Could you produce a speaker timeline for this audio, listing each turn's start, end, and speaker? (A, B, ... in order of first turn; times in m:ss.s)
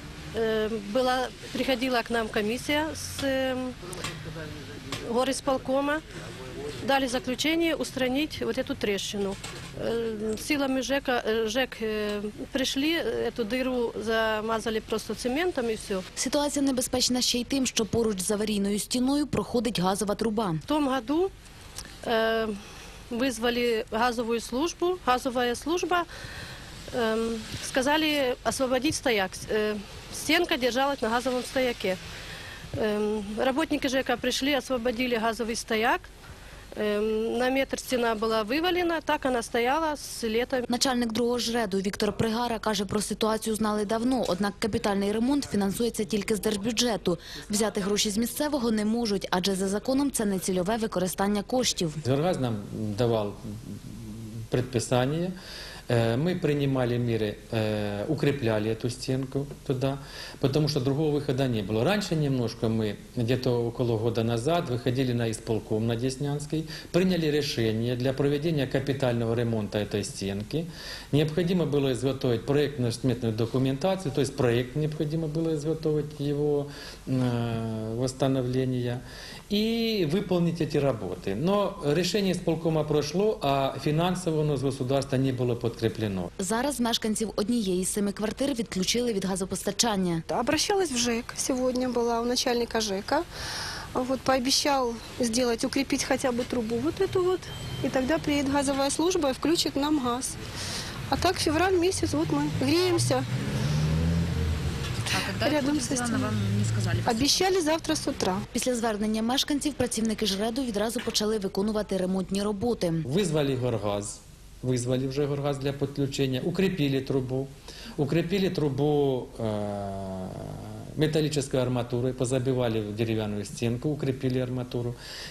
0:00.3-0:03.8 A
0:05.0-0:06.0 A
0:06.8-0:16.0 A
0:16.2-0:20.6 B
0:20.7-0:21.3 A
0:22.0-0:22.6 A
0:23.1-0:26.1 A
0:26.9-0:32.0 A
0:32.7-0:36.1 A
0:36.7-0:40.6 A
0:40.7-0:52.0 B
0:52.0-0:55.3 C
0:55.9-1:26.3 C
1:26.4-1:30.2 B
1:30.3-1:33.2 D
1:33.9-1:40.4 D
1:41.1-1:43.3 D
1:45.1-1:47.4 E
1:45.3-1:46.4 D
1:47.0-1:48.4 D
1:48.5-1:53.0 B
1:53.0-2:05.0 C